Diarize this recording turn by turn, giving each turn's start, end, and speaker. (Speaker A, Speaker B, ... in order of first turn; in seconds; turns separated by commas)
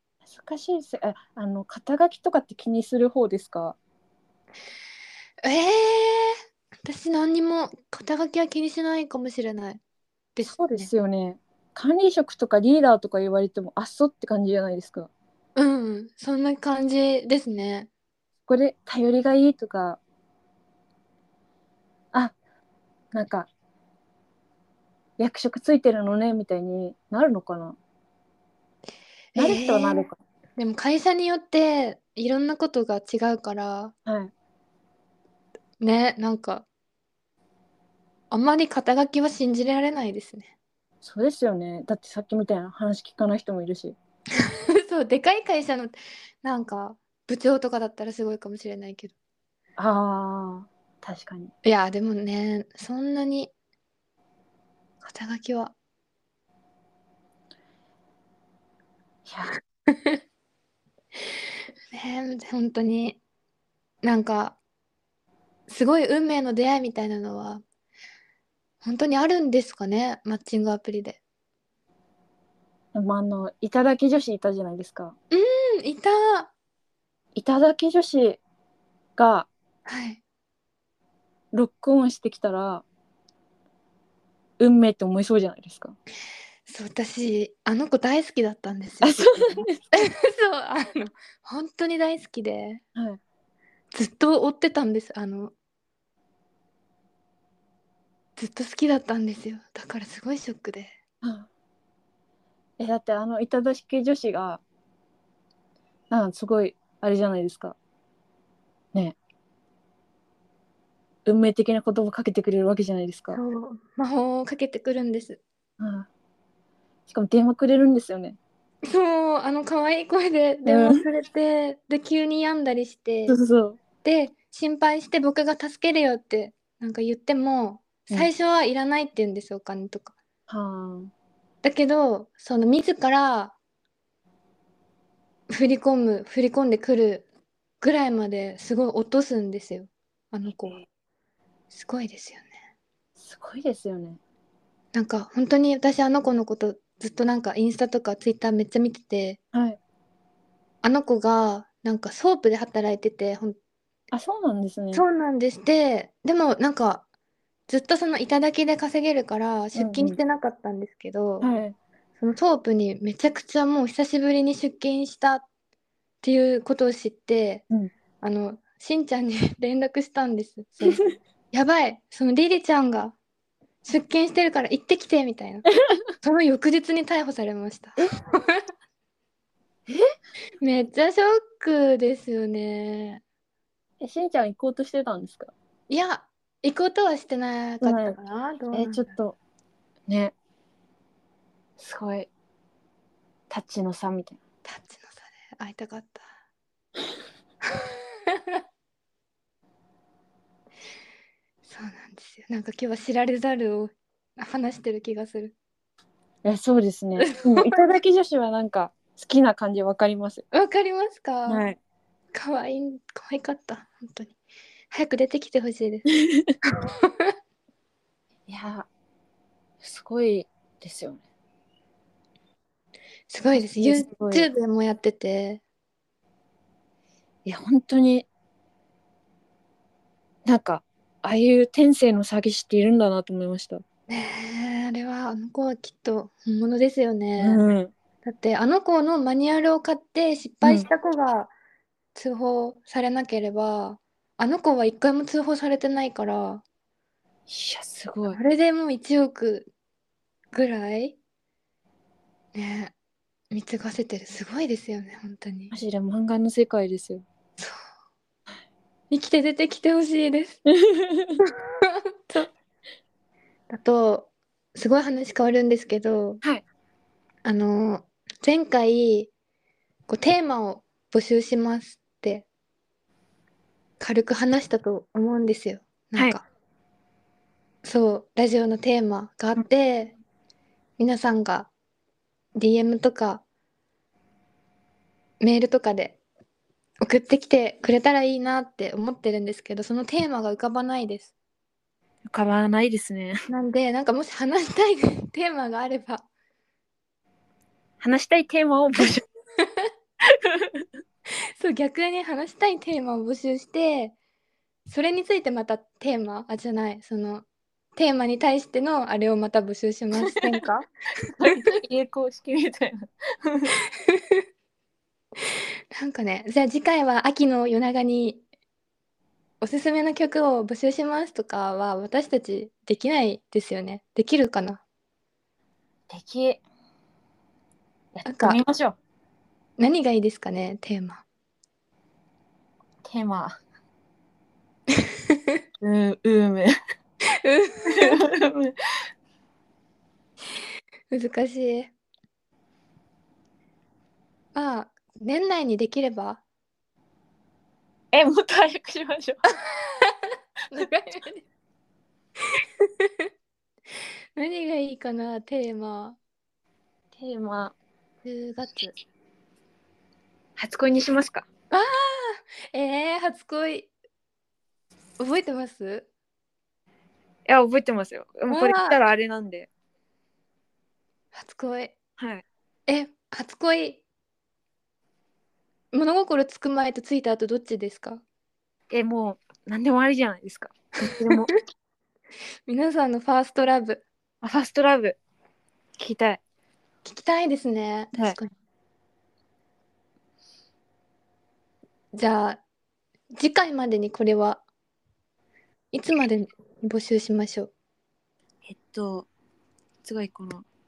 Speaker A: 0.2-3.8, Speaker B: 5.4-9.8, Speaker B: 10.3-10.9, Speaker A: 10.4-15.1, Speaker B: 15.6-17.9, Speaker A: 18.5-20.0, Speaker A: 23.1-23.5, Speaker A: 25.2-27.8, Speaker B: 29.3-33.9, Speaker A: 29.4-30.2, Speaker A: 34.0-34.3, Speaker B: 35.8-36.6, Speaker B: 38.3-40.5, Speaker A: 41.0-44.0, Speaker B: 44.4-49.1, Speaker A: 49.8-51.5, Speaker B: 51.6-53.5, Speaker B: 55.0-55.7, Speaker A: 59.2-59.5, Speaker B: 59.9-60.2, Speaker B: 61.9-63.2, Speaker B: 64.0-64.6, Speaker B: 65.7-67.6, Speaker B: 68.8-71.2, Speaker A: 72.9-75.1, Speaker B: 75.3-76.5, Speaker A: 77.3-78.4, Speaker A: 79.2-79.5, Speaker B: 79.8-80.2, Speaker A: 81.5-82.8, Speaker A: 84.6-85.9, Speaker B: 86.7-92.8, Speaker A: 89.0-89.8, Speaker A: 92.9-93.2, Speaker B: 93.9-95.5, Speaker B: 98.3-100.9, Speaker A: 101.2-101.5, Speaker A: 102.8-104.6, Speaker A: 106.1-107.8, Speaker A: 111.2-113.4, Speaker B: 113.3-115.4, Speaker A: 115.8-116.1, Speaker A: 117.1-118.4, Speaker B: 118.8-123.4, Speaker A: 120.7-121.0, Speaker A: 123.3-123.8, Speaker B: 124.0-130.1, Speaker A: 130.5-131.1, Speaker B: 131.6-133.5, Speaker B: 135.5-137.2, Speaker B: 137.8-140.8, Speaker B: 141.7-142.5, Speaker A: 143.2-144.2, Speaker B: 144.9-149.4, Speaker A: 149.5-149.8, Speaker B: 150.8-153.6, Speaker A: 154.1-155.0, Speaker B: 154.9-157.0, Speaker B: 157.7-161.5, Speaker A: 159.7-160.2, Speaker A: 161.4-161.7, Speaker B: 162.2-165.4, Speaker B: 166.2-167.6, Speaker B: 168.2-173.1, Speaker B: 173.8-175.7, Speaker B: 176.2-178.6, Speaker B: 180.6-183.2, Speaker A: 184.0-185.5, Speaker B: 185.9-189.1, Speaker A: 187.8-188.2, Speaker A: 188.7-189.3, Speaker A: 190.1-190.3, Speaker A: 191.8-192.3, Speaker A: 193.5-194.4, Speaker B: 194.6-196.2, Speaker B: 197.7-198.6, Speaker B: 201.7-205.5, Speaker A: 206.4-210.4, Speaker B: 207.2-207.8, Speaker B: 210.5-211.6, Speaker A: 211.5-211.8, Speaker B: 212.3-214.3, Speaker B: 214.9-216.1, Speaker A: 216.1-216.5, Speaker B: 216.7-217.3, Speaker A: 218.5-218.9, Speaker A: 219.8-221.2, Speaker B: 223.3-225.6, Speaker A: 223.5-224.5, Speaker A: 227.4-228.2, Speaker A: 230.4-233.8, Speaker B: 234.1-237.6, Speaker A: 237.4-237.9, Speaker B: 238.2-241.5, Speaker A: 240.6-240.9, Speaker B: 242.1-246.6, Speaker A: 247.5-248.4, Speaker B: 248.3-249.7, Speaker B: 250.5-251.2, Speaker B: 252.5-252.9, Speaker B: 253.5-255.7, Speaker A: 255.7-257.2, Speaker B: 259.1-260.6, Speaker A: 260.6-261.4, Speaker B: 261.4-262.5, Speaker B: 263.7-266.4, Speaker B: 267.4-269.3, Speaker B: 270.1-272.4, Speaker B: 274.0-276.4, Speaker B: 277.8-280.1, Speaker B: 281.0-281.7, Speaker B: 282.6-283.4, Speaker B: 285.4-286.2, Speaker B: 287.0-291.3, Speaker A: 292.3-293.4, Speaker B: 293.5-296.2, Speaker A: 298.0-299.2, Speaker B: 299.6-299.9, Speaker A: 300.3-300.8, Speaker B: 301.6-304.1, Speaker B: 304.9-307.4, Speaker B: 307.9-310.9, Speaker A: 310.2-310.5, Speaker A: 311.4-313.7, Speaker B: 314.0-314.4, Speaker B: 315.9-318.4, Speaker B: 319.6-324.8, Speaker A: 326.1-326.6, Speaker A: 328.1-329.0, Speaker B: 328.2-328.6, Speaker B: 329.8-331.2, Speaker A: 333.0-333.6, Speaker A: 335.8-336.7, Speaker B: 337.3-338.3, Speaker A: 337.9-338.7, Speaker B: 341.1-341.9, Speaker B: 344.5-346.4, Speaker A: 348.1-349.4, Speaker B: 349.6-351.4, Speaker B: 352.4-353.3, Speaker B: 354.4-356.2, Speaker A: 357.1-357.7, Speaker B: 358.2-358.9, Speaker A: 360.6-361.4, Speaker B: 361.7-363.9, Speaker B: 365.2-366.1, Speaker A: 367.4-369.7, Speaker B: 368.5-369.0, Speaker B: 371.3-372.0, Speaker A: 372.2-372.4, Speaker B: 372.9-374.0, Speaker B: 375.9-378.2, Speaker A: 378.9-381.5, Speaker B: 381.0-381.5, Speaker B: 382.7-384.0, Speaker A: 384.4-385.2, Speaker A: 386.0-386.4, Speaker B: 387.0-388.5, Speaker B: 392.1-392.6, Speaker B: 393.4-394.6, Speaker B: 395.9-397.7, Speaker A: 398.6-399.3, Speaker A: 400.0-400.6